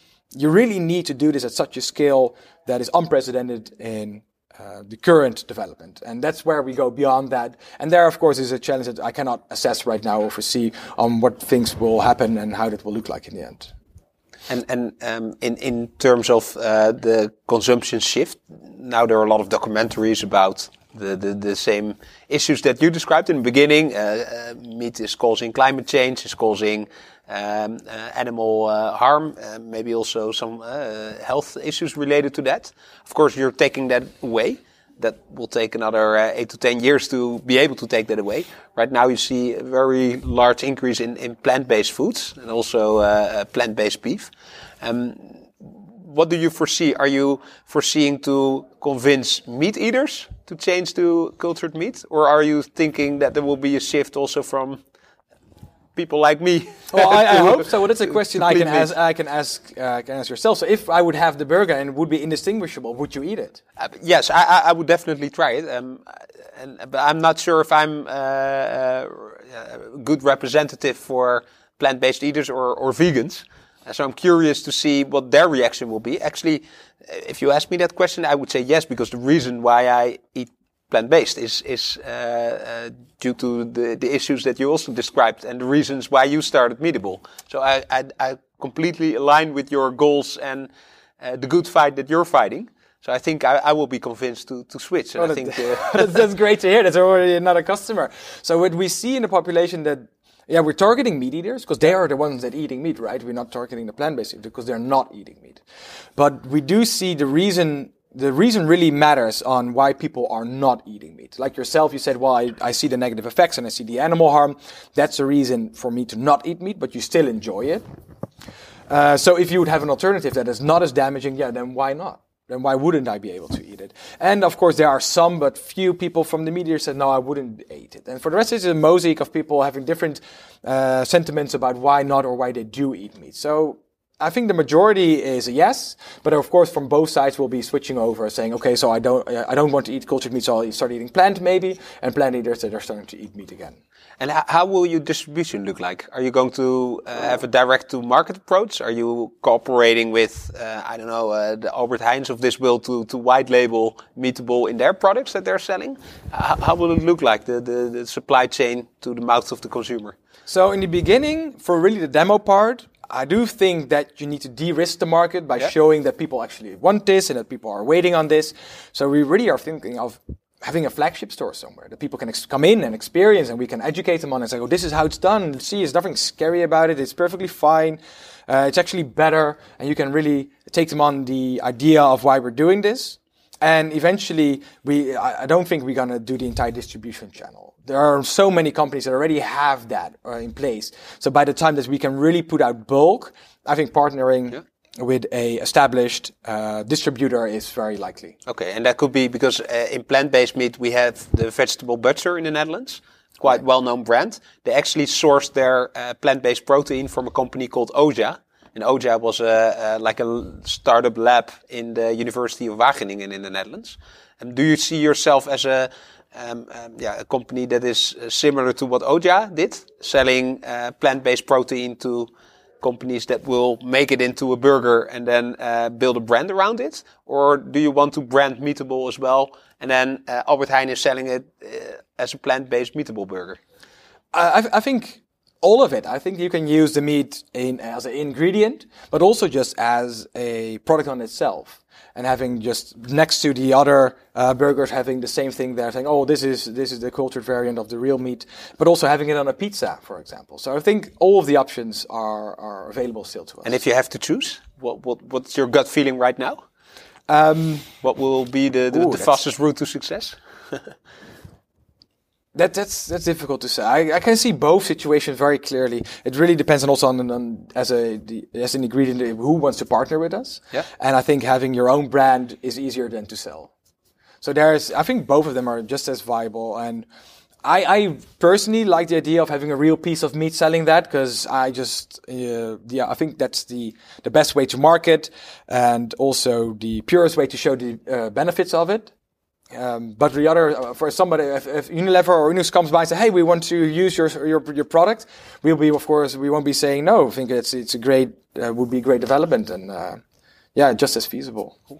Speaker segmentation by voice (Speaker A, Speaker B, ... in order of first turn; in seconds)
Speaker A: 0.3-13.7, 56.9-63.6, 95.2-105.6, 106.2-117.8, 118.9-143.8, 160.5-198.4, 234.3-253.8, 257.3-257.9, 258.9-259.4, 262.5-273.7, 274.4-277.1, 277.6-289.1, 289.7-300.2, 300.7-301.8
Speaker B: 14.5-54.8, 56.0-57.7, 58.2-58.9, 63.8-90.7, 91.2-96.2, 144.2-160.1, 198.4-222.3, 222.8-233.6, 253.6-256.6, 258.0-260.9